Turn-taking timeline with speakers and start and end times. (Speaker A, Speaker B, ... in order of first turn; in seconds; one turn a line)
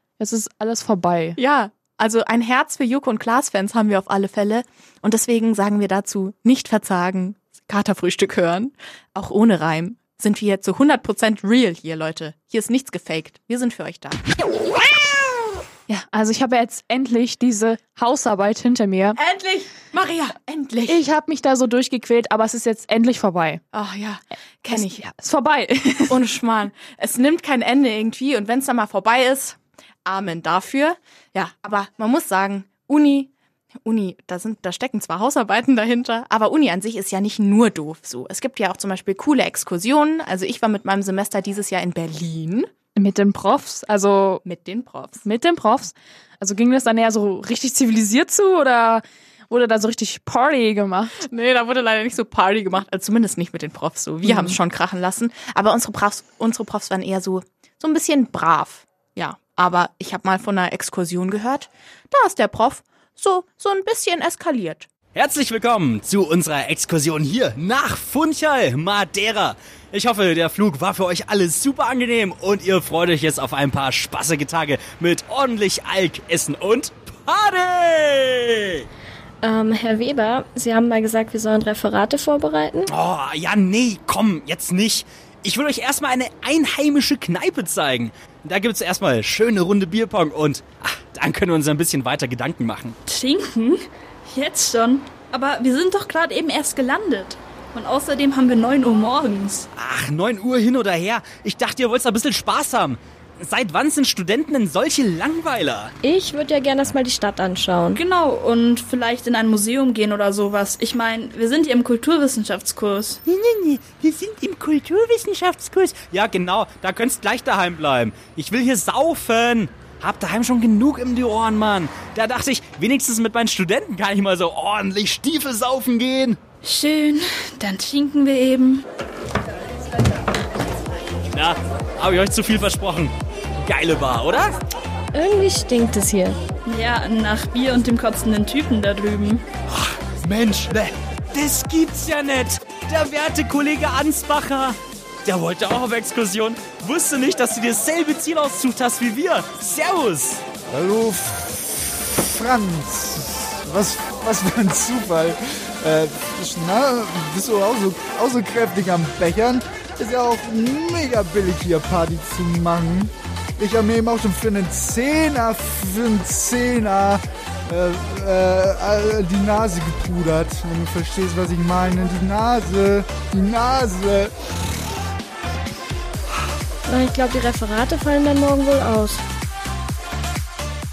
Speaker A: 0.2-1.4
Speaker B: 1.4-14.2
Speaker A: 15.9-19.2
Speaker B: 19.1-21.0
Speaker A: 20.9-23.6
Speaker B: 23.7-25.0
Speaker A: 24.7-26.1
Speaker B: 26.1-33.3
Speaker B: 33.9-42.7
Speaker A: 43.0-44.4
Speaker B: 44.4-45.1
Speaker A: 45.2-51.2
Speaker B: 51.2-64.9
Speaker A: 54.2-54.5
Speaker C: 65.1-78.8
Speaker D: 79.4-82.9
Speaker C: 82.9-93.0
Speaker E: 93.1-99.7
Speaker C: 99.8-105.9
Speaker D: 106.1-108.0
Speaker E: 107.9-113.2
Speaker C: 113.3-126.4
Speaker E: 126.6-128.8
Speaker C: 131.3-134.5
Speaker D: 135.1-136.4
Speaker E: 136.7-139.4
Speaker C: 140.2-150.4
Speaker F: 150.7-151.4
Speaker F: 152.1-174.3
Speaker D: 176.9-179.2